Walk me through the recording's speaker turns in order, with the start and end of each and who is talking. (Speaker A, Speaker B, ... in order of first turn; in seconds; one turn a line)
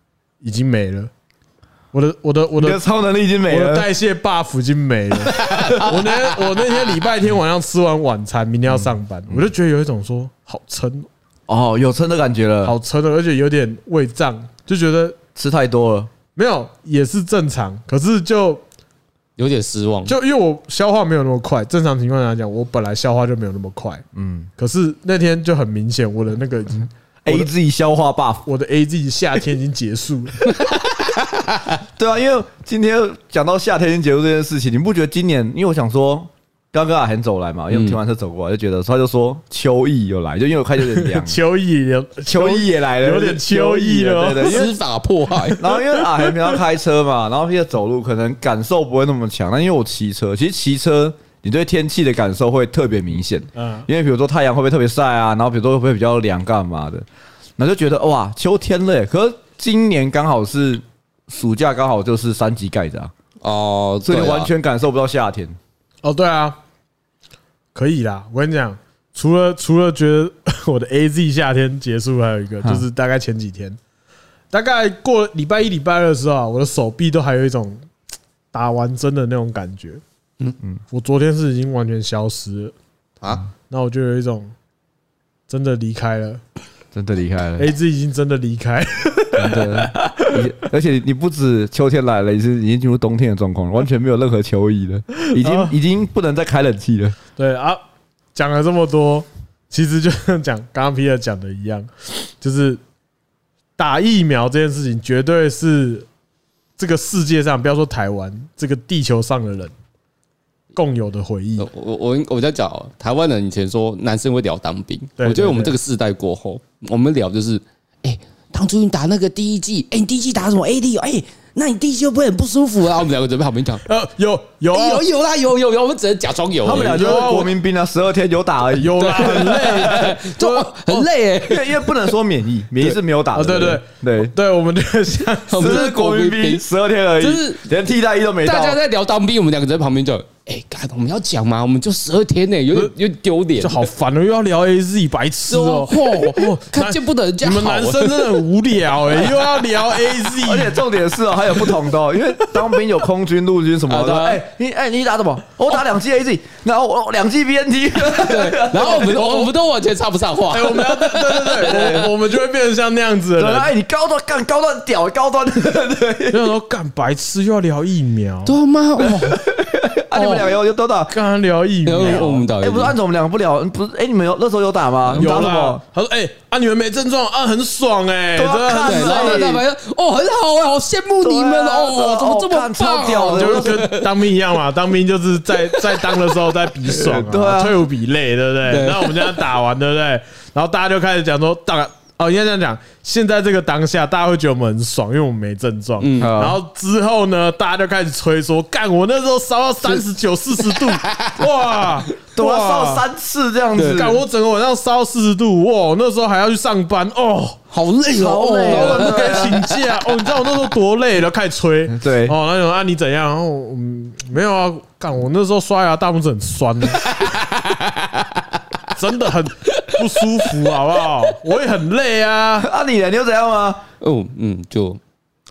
Speaker A: 0.4-1.1
Speaker A: 1.9-2.8
Speaker B: 2.6-3.9
Speaker A: 3.5-11.1
Speaker C: 5.2-6.9
Speaker B: 8.7-9.4
Speaker B: 11.5-12.8
Speaker A: 12.6-15.2
Speaker B: 15.3-16.1
Speaker A: 16.4-18.6
Speaker C: 19.4-20.1
Speaker A: 20.1-24.0
Speaker B: 24.1-24.5
Speaker A: 24.6-27.5
Speaker B: 27.2-28.4
Speaker A: 28.4-30.5
Speaker C: 30.5-31.6
Speaker B: 31.9-41.4
Speaker C: 37.7-38.0
Speaker A: 40.8-44.7
Speaker B: 42.3-44.7
Speaker C: 44.4-45.6
Speaker A: 45.3-46.6
Speaker B: 45.6-57.0
Speaker A: 53.5-53.9
Speaker B: 57.6-63.1
Speaker C: 63.4-64.5
Speaker B: 64.0-65.6
Speaker A: 66.0-66.6
Speaker A: 67.7-73.8
Speaker A: 74.5-77.8
Speaker A: 78.5-80.0
Speaker A: 80.9-82.7
Speaker A: 83.7-84.5
Speaker A: 85.5-86.4
Speaker B: 86.9-87.7
Speaker A: 87.6-90.4
Speaker B: 89.3-97.2
Speaker A: 95.2-95.7
Speaker A: 97.4-97.8
Speaker A: 98.3-102.8
Speaker A: 103.8-106.1
Speaker A: 106.8-109.7
Speaker A: 110.7-111.7
Speaker C: 111.6-123.8
Speaker A: 115.2-115.8
Speaker A: 123.8-125.0
Speaker C: 124.7-127.2
Speaker B: 126.6-129.8
Speaker A: 126.6-127.5
Speaker A: 128.7-131.1
Speaker C: 129.0-132.1
Speaker B: 131.4-134.3
Speaker A: 132.8-135.8
Speaker C: 135.5-136.6
Speaker B: 135.6-138.8
Speaker C: 137.2-137.6
Speaker C: 138.4-143.8
Speaker A: 143.6-150.8
Speaker C: 145.5-148.4
Speaker C: 149.1-149.4
Speaker B: 150.4-159.5
Speaker C: 153.9-154.4
Speaker C: 158.1-162.1
Speaker A: 158.8-159.4
Speaker A: 160.5-163.7
Speaker B: 161.6-162.1
Speaker B: 163.4-166.5
Speaker A: 166.3-168.5
Speaker C: 168.5-169.5
Speaker B: 169.0-171.2
Speaker C: 170.1-170.5
Speaker A: 171.1-172.5
Speaker C: 171.8-172.9
Speaker B: 172.0-175.8
Speaker C: 175.1-175.4
Speaker A: 175.2-179.6
Speaker B: 178.3-179.6
Speaker C: 178.8-184.1
Speaker B: 181.2-183.9
Speaker A: 183.3-203.0
Speaker C: 185.7-186.3
Speaker B: 186.9-187.8
Speaker C: 188.7-189.5
Speaker C: 196.0-196.4
Speaker B: 196.2-196.6
Speaker C: 200.8-201.3
Speaker B: 202.3-204.2
Speaker C: 203.7-204.1
Speaker A: 203.9-207.6
Speaker C: 207.7-209.6
Speaker B: 208.1-209.6
Speaker A: 208.6-217.2
Speaker B: 211.9-212.3
Speaker C: 217.0-218.5
Speaker A: 218.9-222.7
Speaker C: 219.7-220.5
Speaker B: 222.6-223.8
Speaker C: 224.0-225.0